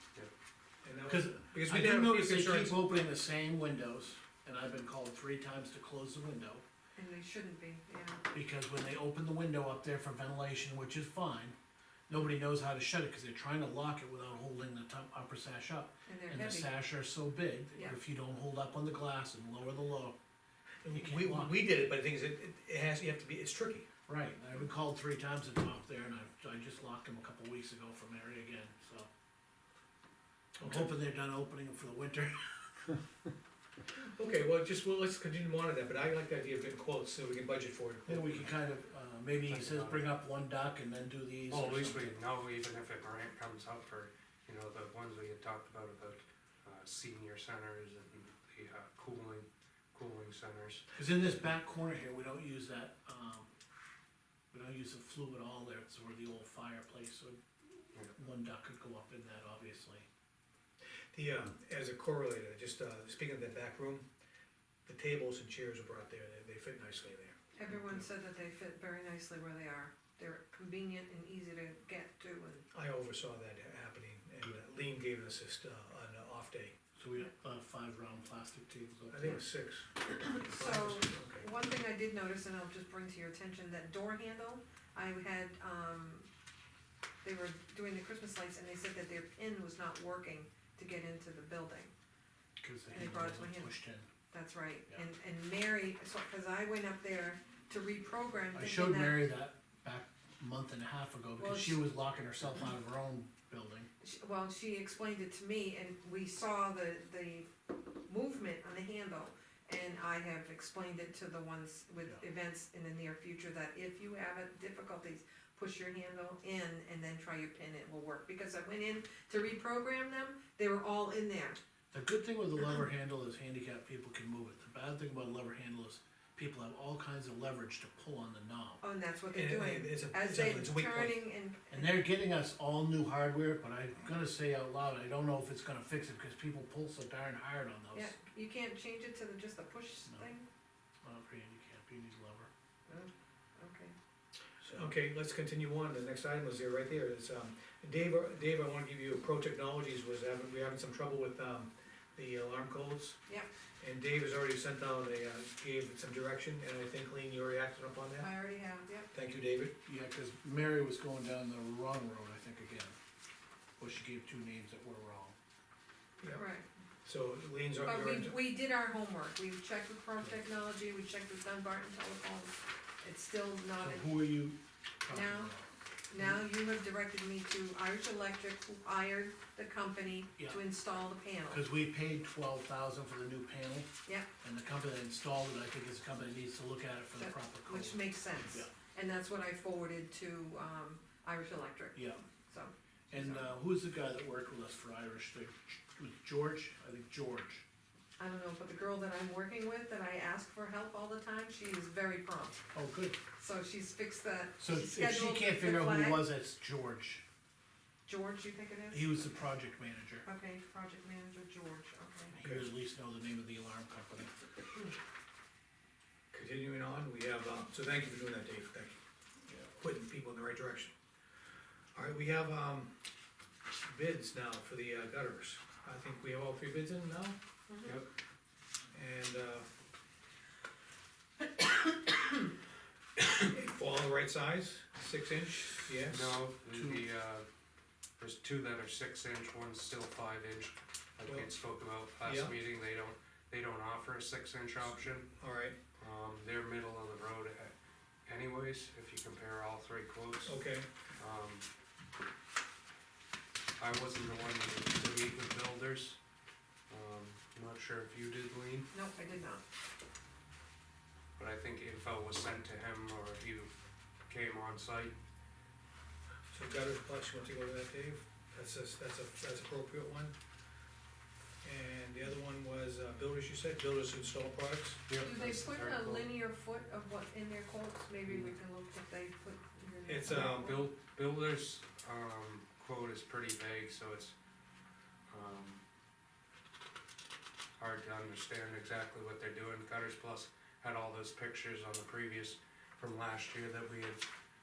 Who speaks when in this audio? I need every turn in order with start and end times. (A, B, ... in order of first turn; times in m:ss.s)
0:00.8-0:03.0 A
0:01.0-0:06.6 B
0:07.0-0:08.2 C
0:08.3-0:11.6 B
0:12.1-0:20.2 B
0:16.1-0:16.7 C
0:20.8-0:23.9 A
0:20.9-0:21.6 B
0:24.1-0:29.1 B
0:30.6-0:30.9 A
0:30.6-0:32.6 B
0:33.9-0:38.5 A
0:38.1-0:42.2 B
0:39.4-0:40.1 D
0:41.5-0:50.9 D
0:50.9-0:53.5 B
0:54.5-1:00.0 B
1:01.1-1:04.0 A
1:04.8-1:07.4 A
1:07.5-1:12.6 C
1:12.7-1:16.7 A
1:17.0-1:19.4 B
1:19.1-1:21.4 A
1:20.2-1:26.3 C
1:27.2-1:31.9 C
1:32.6-1:34.0 B
1:32.9-1:33.7 C
1:34.3-1:39.2 C
1:38.5-1:43.9 B
1:41.4-1:41.8 C
1:44.0-1:47.5 C
1:48.1-2:01.6 C
2:01.9-2:08.8 B
2:08.8-2:12.0 C
2:09.3-2:11.2 A
2:11.7-2:18.1 B
2:17.9-2:20.4 C
2:21.0-2:22.5 B
2:22.9-2:23.9 C
2:24.6-2:33.2 A
2:33.8-2:38.3 A
2:38.2-2:39.1 C
2:39.1-2:39.7 A
2:39.8-2:43.0 B
2:43.8-2:45.4 B
2:46.3-2:46.7 C
2:47.0-2:48.4 A
2:47.8-2:54.1 C
2:53.8-2:55.7 B
2:55.1-2:55.5 C
2:56.1-3:01.6 C
3:01.5-3:03.9 B
3:04.4-3:08.7 B
3:07.2-3:13.5 C
3:11.9-3:12.2 B
3:13.1-3:17.6 B
3:18.2-3:22.6 C
3:22.7-3:23.2 B
3:23.4-3:26.2 C
3:24.6-3:27.2 B
3:28.0-3:29.0 C
3:28.9-3:30.2 B
3:30.2-3:32.4 C
3:32.3-3:34.3 B
3:32.4-3:32.7 A
3:36.3-3:39.0 A
3:39.5-3:40.9 A
3:41.9-3:42.9 A
3:43.8-3:47.4 A
3:47.7-3:48.0 C
3:48.9-3:49.7 A
3:53.3-3:56.4 A
3:56.1-3:57.4 D
3:56.7-3:57.0 B
3:58.2-4:05.3 D
4:02.2-4:02.6 A
4:04.9-4:05.8 A
4:06.0-4:07.7 D
4:08.2-4:10.6 D
4:10.4-4:10.9 A
4:11.2-4:11.7 D
4:13.8-4:16.2 D
4:16.9-4:18.9 D
4:18.9-4:19.6 C
4:21.4-4:23.7 D
4:24.3-4:25.1 D
4:26.5-4:30.3 A
4:31.6-4:35.0 A
4:35.1-4:36.3 D
4:35.2-4:40.9 C
4:40.0-4:40.8 A
4:40.3-4:44.3 D
4:45.3-4:45.8 D
4:47.8-4:54.2 D